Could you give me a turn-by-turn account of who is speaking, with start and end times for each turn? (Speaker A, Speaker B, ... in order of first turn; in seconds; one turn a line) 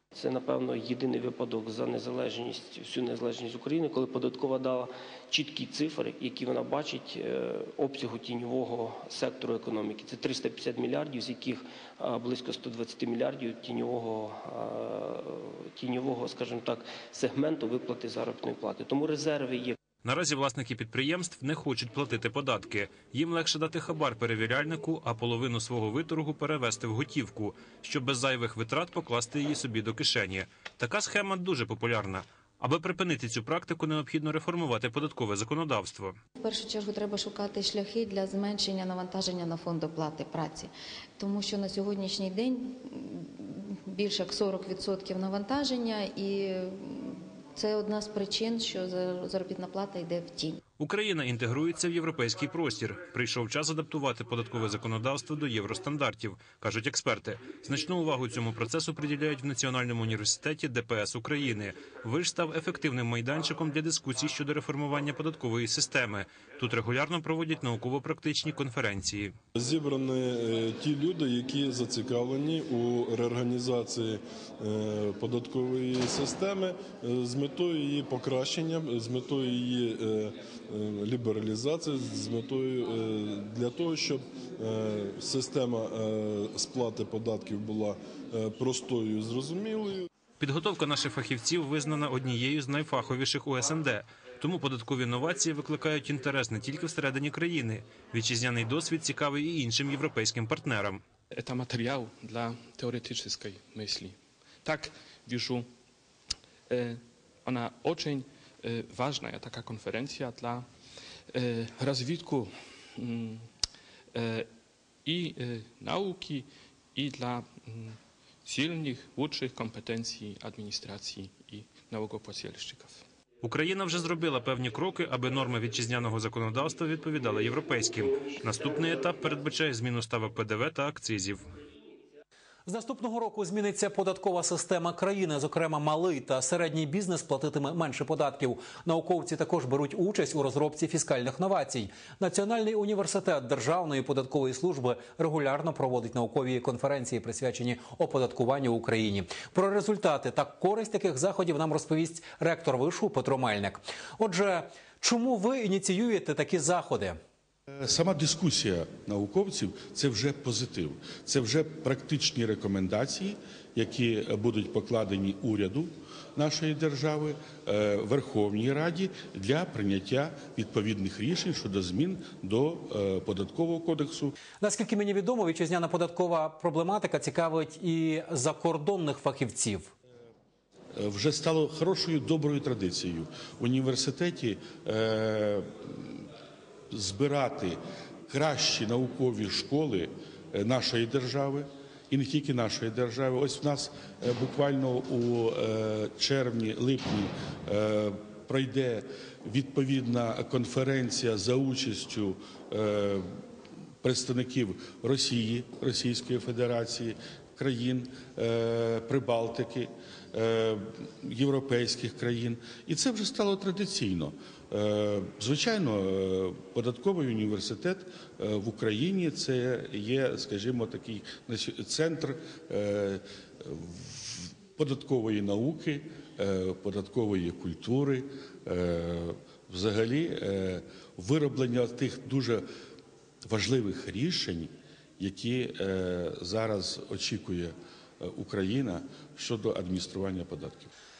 Speaker A: 0.1-19.8
Speaker B: 20.0-36.2
Speaker C: 36.4-50.6
Speaker B: 50.8-69.3
Speaker D: 69.5-90.1
Speaker B: 90.4-101.0
Speaker E: 101.3-105.7
Speaker E: 106.7-110.7
Speaker E: 111.3-113.4
Speaker E: 114.1-114.5
Speaker E: 115.0-123.0
Speaker B: 123.4-131.4
Speaker F: 132.7-157.2
Speaker G: 157.8-174.3
Speaker F: 174.6-179.9
Speaker G: 180.9-186.2
Speaker G: 186.9-203.3
Speaker G: 204.0-232.6
Speaker G: 233.4-240.9